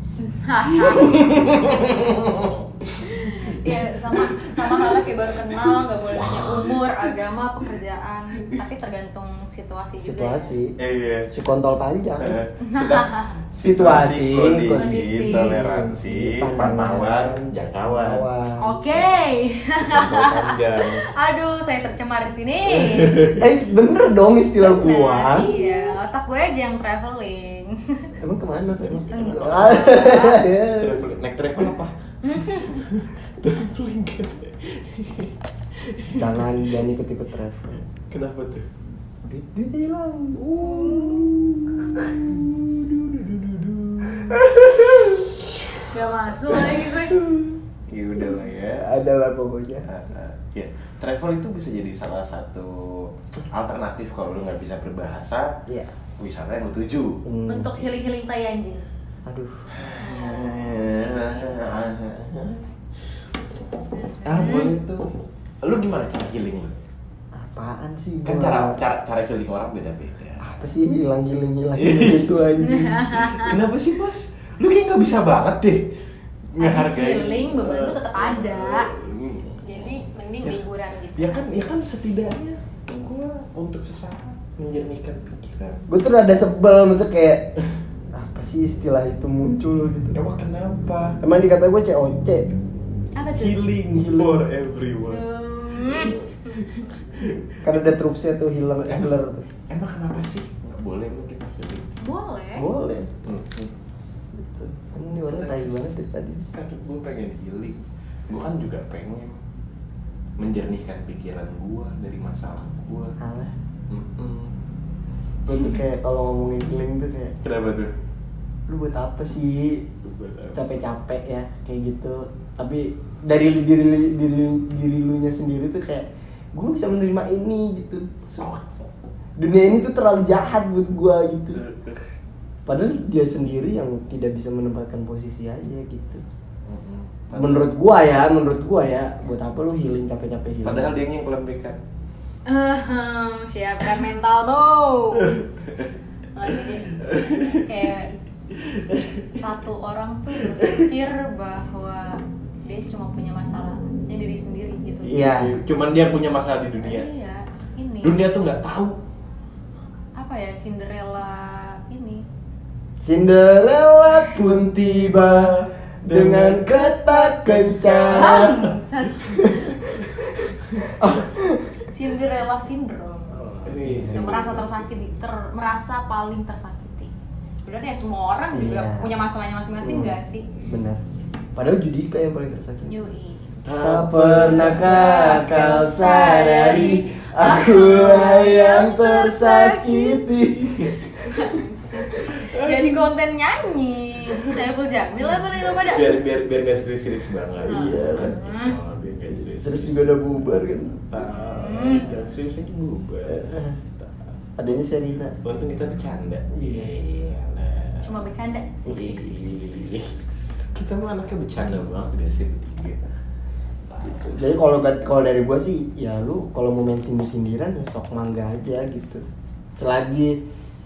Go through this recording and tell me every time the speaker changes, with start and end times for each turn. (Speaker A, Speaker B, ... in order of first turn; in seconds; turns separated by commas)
Speaker A: 0.2-1.7, Speaker B: 0.7-6.8, Speaker A: 3.0-10.5, Speaker C: 10.0-10.8, Speaker B: 10.8-11.3, Speaker C: 11.3-12.4, Speaker B: 12.2-18.2, Speaker A: 12.6-13.3, Speaker C: 13.6-18.8, Speaker A: 14.8-15.7, Speaker A: 18.6-23.4, Speaker B: 19.8-21.0, Speaker B: 22.8-23.4, Speaker C: 23.4-25.9, Speaker A: 24.6-28.1, Speaker C: 28.2-31.1, Speaker B: 28.8-31.9, Speaker A: 29.1-30.4, Speaker A: 32.2-32.8, Speaker B: 32.7-36.5, Speaker C: 36.1-37.8, Speaker B: 38.1-38.6, Speaker C: 39.3-43.0, Speaker B: 40.6-41.3, Speaker B: 41.8-42.5, Speaker B: 43.0-45.8, Speaker C: 44.0-44.5, Speaker A: 45.9-47.1, Speaker C: 46.5-47.6, Speaker B: 47.9-48.9, Speaker C: 48.1-49.9, Speaker B: 49.9-55.6, Speaker C: 55.7-55.9, Speaker B: 56.2-57.2, Speaker C: 57.2-57.9, Speaker A: 57.5-58.8, Speaker C: 59.2-59.7, Speaker B: 59.7-62.6, Speaker A: 60.0-61.8, Speaker A: 63.9-64.8, Speaker B: 64.2-65.1, Speaker B: 65.6-66.7, Speaker C: 67.3-68.8, Speaker B: 68.2-70.5, Speaker C: 70.4-73.1, Speaker B: 71.8-72.3, Speaker A: 72.6-73.5, Speaker B: 73.2-75.9, Speaker B: 76.5-80.6, Speaker A: 76.6-78.9, Speaker A: 79.6-81.5, Speaker B: 81.2-85.8, Speaker C: 85.9-87.5, Speaker C: 88.1-90.2, Speaker B: 90.1-91.2, Speaker C: 91.2-92.5, Speaker A: 93.2-93.6, Speaker B: 93.3-95.2, Speaker C: 93.9-94.4, Speaker A: 95.1-96.6, Speaker B: 95.8-97.8, Speaker C: 97.6-99.5, Speaker B: 99.7-101.9, Speaker A: 102.0-102.7, Speaker C: 102.6-103.1, Speaker B: 103.2-103.7, Speaker C: 104.3-106.5, Speaker B: 105.2-105.9, Speaker B: 106.4-109.4, Speaker B: 110.4-113.2, Speaker C: 113.2-113.5, Speaker B: 113.9-114.5, Speaker C: 115.5-117.3, Speaker B: 117.4-117.9, Speaker C: 118.7-119.9, Speaker B: 120.0-120.7, Speaker C: 120.5-128.3, Speaker B: 128.3-128.7, Speaker C: 129.4-131.6, Speaker B: 131.5-132.0, Speaker C: 132.7-136.2, Speaker B: 136.7-137.7, Speaker C: 137.3-141.0, Speaker B: 140.6-141.8, Speaker A: 142.5-145.3, Speaker B: 145.2-145.9, Speaker A: 146.3-148.1, Speaker B: 147.0-147.7, Speaker B: 148.5-149.3, Speaker A: 149.3-155.3, Speaker B: 150.5-150.9, Speaker C: 155.1-155.6, Speaker B: 155.1-157.1, Speaker A: 156.8-158.2, Speaker B: 158.0-159.0, Speaker A: 160.2-162.2, Speaker C: 163.0-171.7, Speaker B: 164.3-168.6, Speaker A: 167.9-169.8, Speaker A: 171.9-177.1, Speaker C: 173.4-174.3, Speaker B: 173.6-175.2, Speaker A: 177.6-180.5, Speaker C: 178.5-179.1, Speaker C: 179.8-181.0, Speaker C: 181.5-183.0, Speaker A: 182.8-183.4, Speaker B: 183.6-185.4, Speaker C: 183.8-191.4, Speaker A: 184.6-190.2, Speaker B: 187.9-188.3, Speaker B: 190.6-191.1, Speaker A: 191.2-196.2, Speaker B: 192.2-193.0, Speaker B: 195.6-204.2, Speaker C: 197.6-198.4, Speaker A: 197.6-198.8, Speaker C: 199.3-201.0, Speaker A: 201.2-202.1, Speaker C: 203.3-203.8, Speaker C: 204.6-205.4, Speaker B: 205.4-208.1, Speaker C: 206.5-206.9, Speaker A: 208.0-209.9, Speaker B: 208.8-213.0, Speaker B: 213.9-214.5, Speaker C: 214.0-220.4